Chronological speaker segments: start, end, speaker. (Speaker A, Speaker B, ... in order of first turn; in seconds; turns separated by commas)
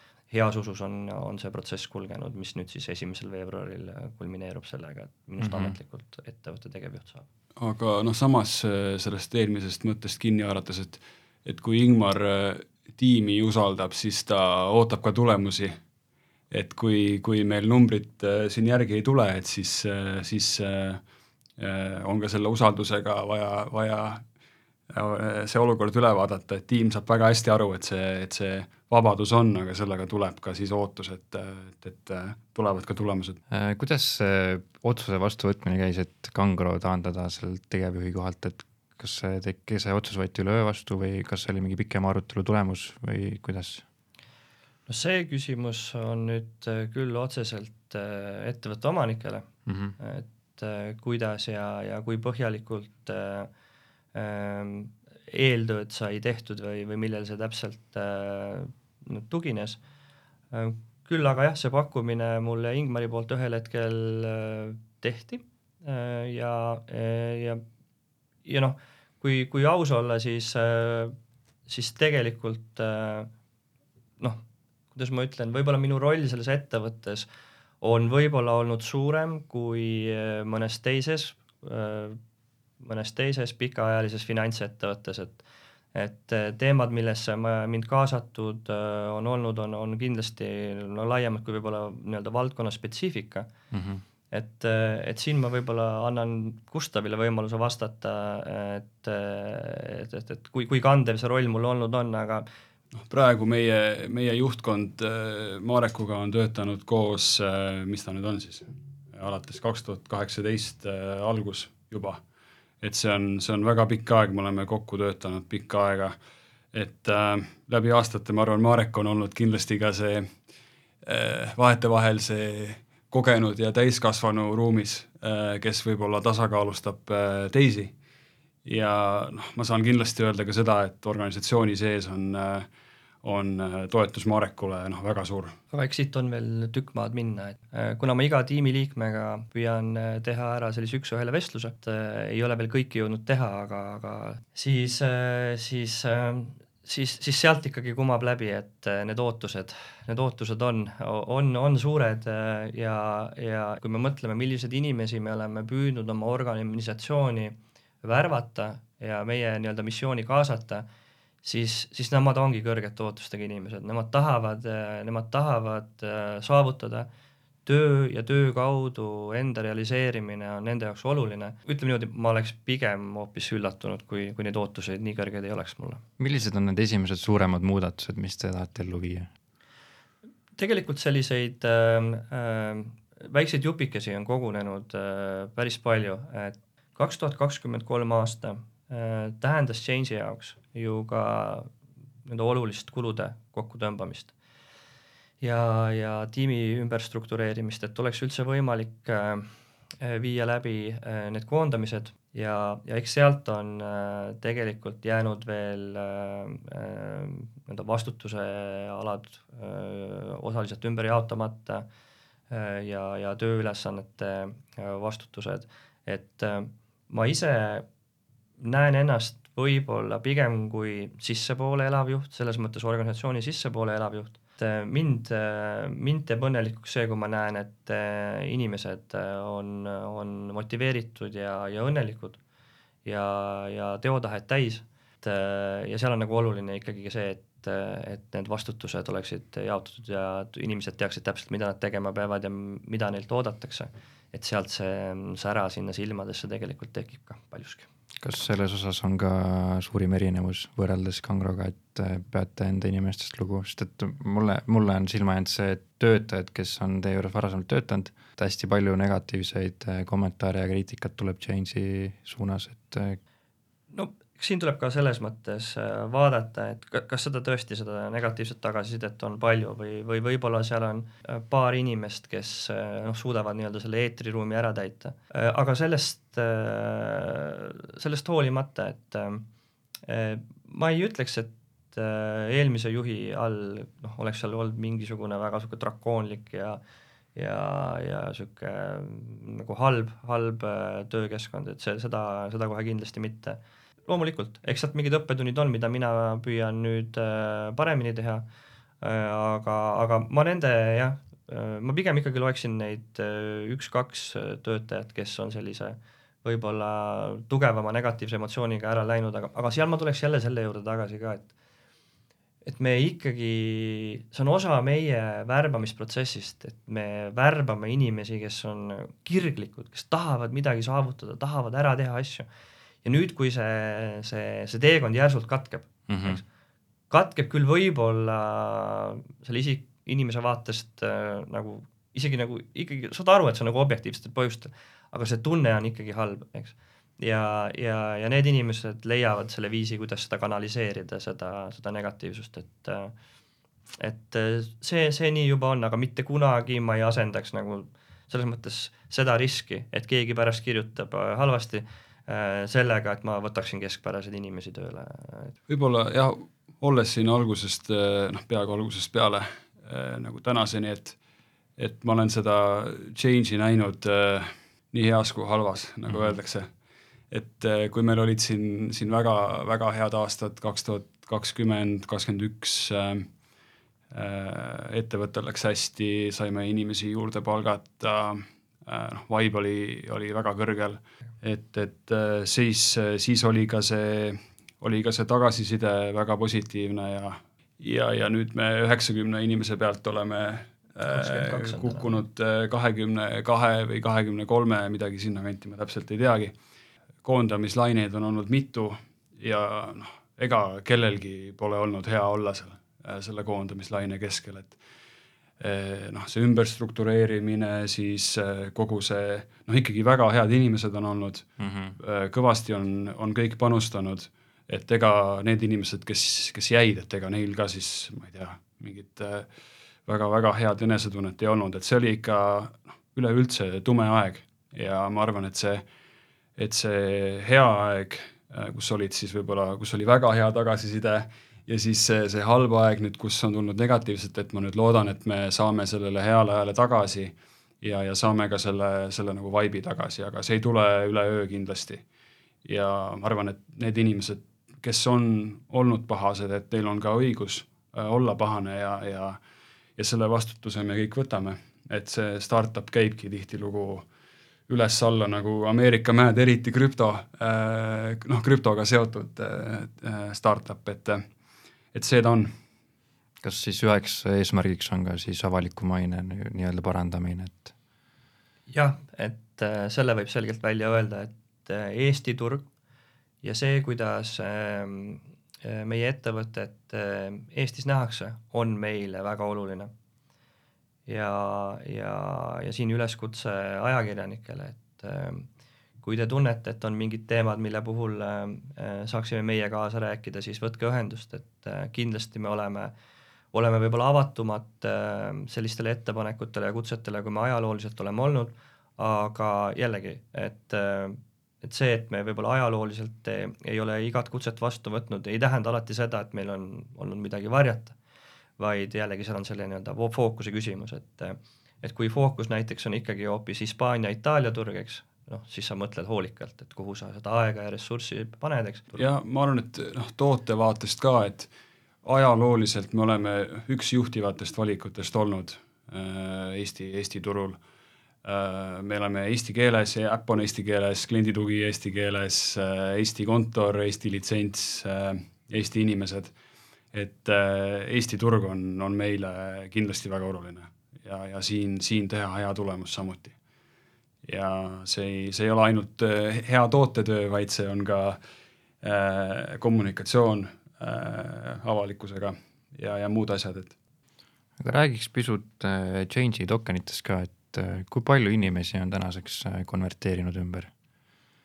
Speaker A: 0.3-7.3, Speaker B: 5.4-5.8, Speaker C: 7.6-15.8, Speaker C: 16.5-21.0, Speaker C: 21.6-24.2, Speaker C: 24.9-33.4, Speaker B: 33.5-43.9, Speaker A: 44.9-49.5, Speaker B: 49.7-50.0, Speaker A: 50.0-53.5, Speaker A: 54.1-59.8, Speaker A: 60.5-67.6, Speaker A: 68.5-71.2, Speaker A: 71.7-73.3, Speaker A: 74.9-77.3, Speaker A: 77.8-82.2, Speaker A: 82.8-85.4, Speaker A: 85.9-93.5, Speaker B: 93.7-94.0, Speaker A: 94.3-102.5, Speaker C: 103.0-112.2, Speaker C: 112.8-116.2, Speaker C: 116.7-120.3, Speaker C: 121.0-127.9, Speaker C: 128.7-132.7, Speaker C: 133.2-135.6, Speaker A: 135.7-160.9, Speaker A: 161.4-167.1, Speaker A: 167.7-176.0, Speaker B: 176.2-179.3, Speaker A: 180.6-191.7, Speaker A: 192.2-194.3, Speaker A: 195.4-211.8, Speaker A: 212.5-217.8, Speaker A: 218.6-232.4, Speaker A: 233.1-247.9, Speaker B: 248.2-263.2, Speaker A: 263.9-279.4, Speaker A: 280.1-286.8, Speaker A: 287.4-298.4, Speaker A: 299.0-311.5, Speaker A: 312.6-322.5, Speaker A: 323.0-326.4, Speaker B: 326.1-326.4, Speaker A: 327.1-343.1, Speaker A: 344.0-355.6, Speaker C: 355.7-361.2, Speaker C: 361.8-366.7, Speaker B: 366.1-366.4, Speaker C: 367.3-373.3, Speaker C: 374.1-396.6, Speaker A: 391.1-392.1, Speaker C: 397.2-404.8, Speaker C: 405.6-419.5, Speaker B: 411.6-412.0, Speaker C: 420.1-425.8, Speaker C: 426.6-442.0, Speaker C: 442.6-449.4, Speaker C: 450.0-454.1, Speaker C: 454.7-461.2, Speaker C: 461.9-462.5, Speaker B: 463.4-467.7, Speaker A: 468.7-472.7, Speaker A: 473.4-479.9, Speaker A: 481.1-485.5, Speaker A: 486.0-492.9, Speaker A: 493.5-508.0, Speaker A: 508.6-519.1, Speaker C: 519.0-521.5, Speaker C: 522.0-527.6, Speaker C: 528.2-536.3, Speaker C: 536.9-543.4, Speaker C: 544.3-548.2, Speaker C: 548.8-553.7, Speaker B: 554.6-560.7